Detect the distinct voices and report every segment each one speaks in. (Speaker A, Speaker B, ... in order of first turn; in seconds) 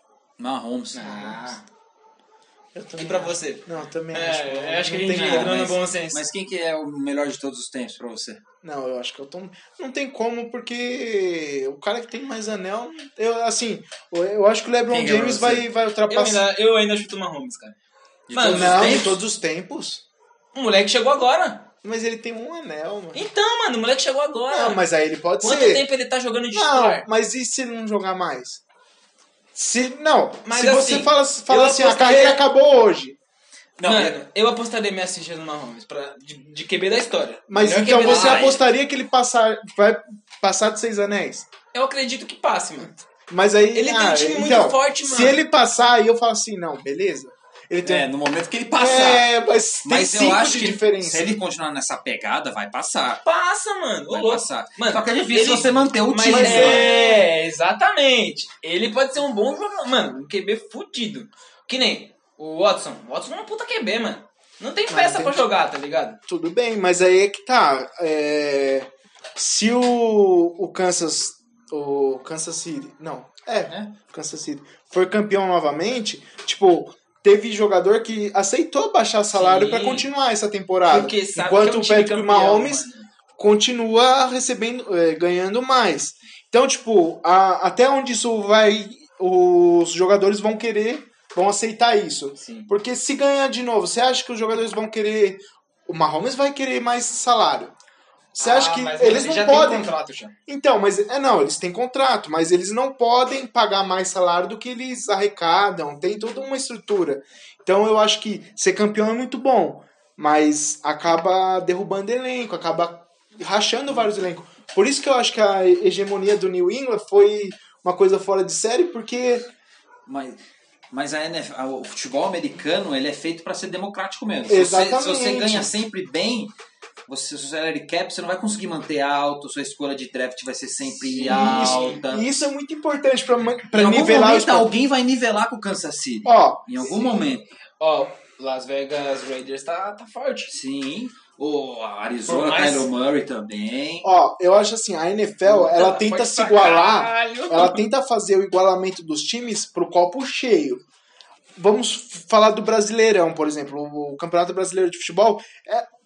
Speaker A: 0.4-1.3, 5.1-8.4, 14.9-15.7, 18.3-19.2, 33.8-34.2, 37.6-38.6, 47.8-49.3, 49.8-53.2, 54.1-56.9, 120.1-126.5, 127.1-132.5, 133.7-137.5, 140.5-144.1
Speaker B: 0.9-1.6, 3.0-6.2, 16.1-17.8, 18.3-19.1, 20.5-21.7, 23.1-24.8, 25.4-27.1, 30.5-32.4, 33.8-38.6, 41.7-43.0, 43.7-45.4, 53.2-66.2, 79.3-80.1, 80.9-83.1, 92.4-92.7, 98.4-100.3, 131.0-132.0, 137.8-140.5, 142.3-142.9, 145.5-147.8
Speaker C: 1.0-1.4, 2.8-5.7, 8.6-16.4, 18.4-20.0, 21.8-23.3, 24.5-25.9, 26.5-28.6, 29.5-33.2, 37.5-41.5, 43.3-48.1, 48.8-51.4, 56.2-57.2, 64.9-65.5, 66.3-97.7, 98.3-99.9, 100.5-119.5, 124.5-125.7, 131.2-134.7, 136.2-137.0, 144.0-150.8, 151.6-155.9